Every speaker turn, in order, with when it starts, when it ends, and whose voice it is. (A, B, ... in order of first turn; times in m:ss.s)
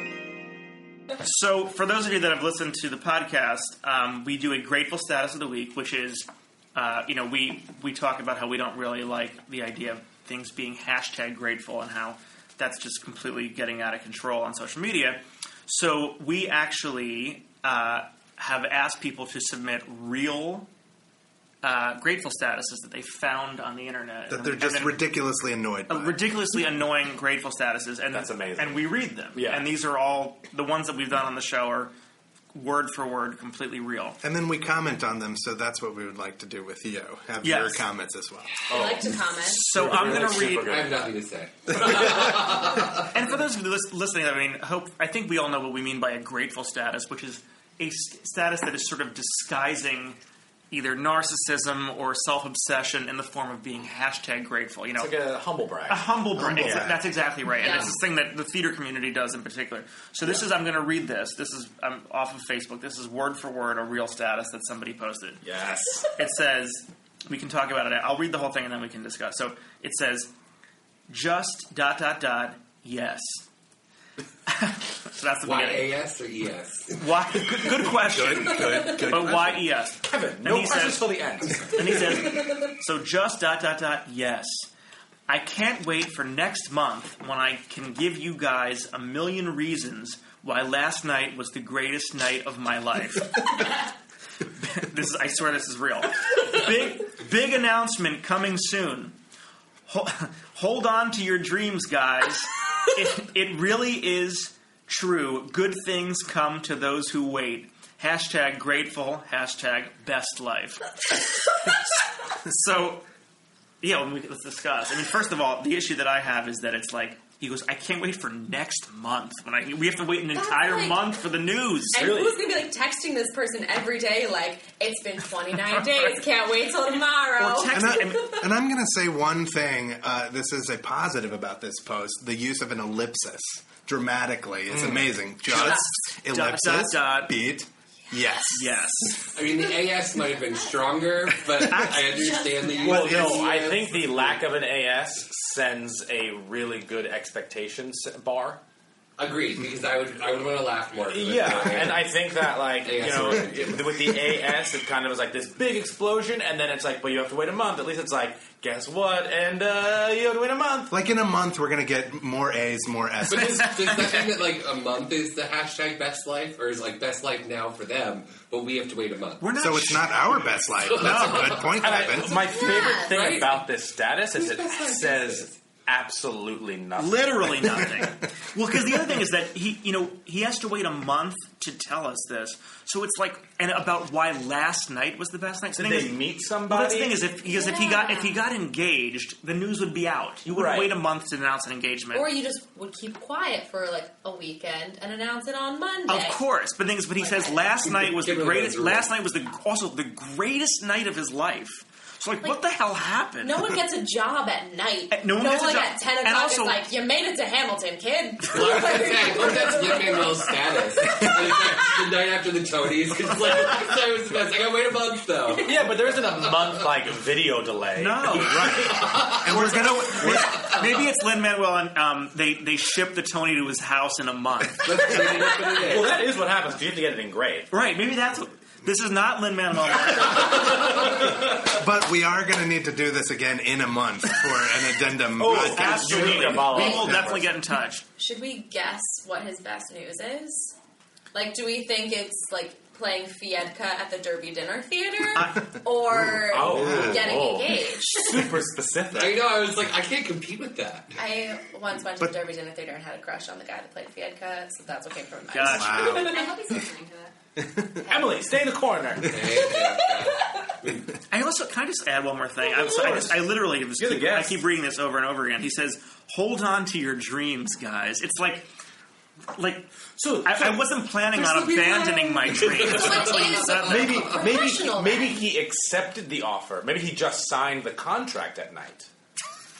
0:01.2-0:20.7 A
0:21.6-0:25.1 A
0:24.3-0:26.2 B
0:25.9-0:31.9 A
0:28.1-0:29.7 C
0:32.5-0:34.2 A
0:34.2-0:38.5 B
0:37.4-0:37.8 A
0:38.7-0:39.8 D
0:38.7-0:41.2 C
0:39.4-0:40.7 A
0:40.0-0:43.1 E
0:41.8-0:42.3 C
0:43.1-0:50.2 A
0:50.7-0:55.1 A
0:55.0-0:56.9 C
0:55.9-1:05.4 A
0:56.4-0:57.0 B
0:57.6-0:57.9 D
1:05.4-1:06.1 C
1:06.2-1:10.3 A
1:11.1-1:13.4 A
1:14.5-1:15.9 A
1:15.4-1:17.0 E
1:17.0-1:21.1 A
1:18.5-1:22.0 C
1:18.8-1:19.4 B
1:21.7-1:24.7 A
1:25.3-1:33.7 A
1:34.6-1:39.2 A
1:39.9-1:50.9 A
1:52.4-1:53.0 A
1:53.8-2:02.0 A
2:00.3-2:01.2 D
2:01.9-2:08.1 D
2:01.9-2:02.4 C
2:07.4-2:08.4 A
2:07.7-2:18.8 B
2:15.4-2:17.4 A
2:18.5-2:19.2 A
2:19.3-2:24.4 E
2:21.7-2:22.0 A
2:22.1-2:23.2 F
2:22.8-2:28.6 C
2:29.2-2:32.2 E
2:31.1-2:40.9 C
2:32.8-2:33.9 E
2:40.9-2:43.9 B
2:43.3-2:49.4 E
2:49.4-2:50.3 A
2:49.6-2:52.5 B
2:50.8-2:51.6 E
2:50.9-2:51.7 A
2:51.6-2:57.8 C
2:52.5-2:53.2 D
2:52.6-2:53.6 E
2:54.3-2:55.5 E
2:57.0-3:12.3 A
3:05.8-3:07.2 C
3:07.5-3:08.4 D
3:10.4-3:10.9 C
3:12.1-3:16.4 D
3:16.1-3:23.6 A
3:17.8-3:19.1 E
3:23.4-3:30.5 D
3:25.1-3:26.8 A
3:28.5-3:36.8 E
3:31.1-3:31.6 D
3:35.5-3:39.1 C
3:38.0-3:38.8 A
3:38.3-3:40.7 B
3:38.9-3:39.4 E
3:39.4-3:45.4 A
3:40.5-3:40.8 E
3:44.8-3:46.2 E
3:45.7-3:47.7 C
3:47.7-3:51.0 A
3:51.6-3:57.4 B
3:55.4-3:57.4 C
3:55.5-3:58.0 A
3:56.7-3:57.1 D
3:58.2-4:00.7 D
4:01.3-4:08.5 D
4:05.3-4:05.6 A
4:06.2-4:09.5 C
4:06.5-4:07.3 B
4:09.1-4:11.1 E
4:11.2-4:16.5 D
4:15.5-4:16.3 A
4:15.6-4:16.4 B
4:16.1-4:17.3 F
4:17.6-4:18.0 B
4:18.1-4:19.4 C
4:19.2-4:21.0 E
4:21.3-4:28.7 A
4:22.8-4:23.4 C
4:24.0-4:24.6 C
4:29.5-4:29.9 A
4:30.2-4:30.9 C
4:30.4-4:34.2 A
4:31.4-4:33.6 E
4:32.7-4:35.4 D
4:32.8-4:33.2 C
4:33.8-4:39.1 C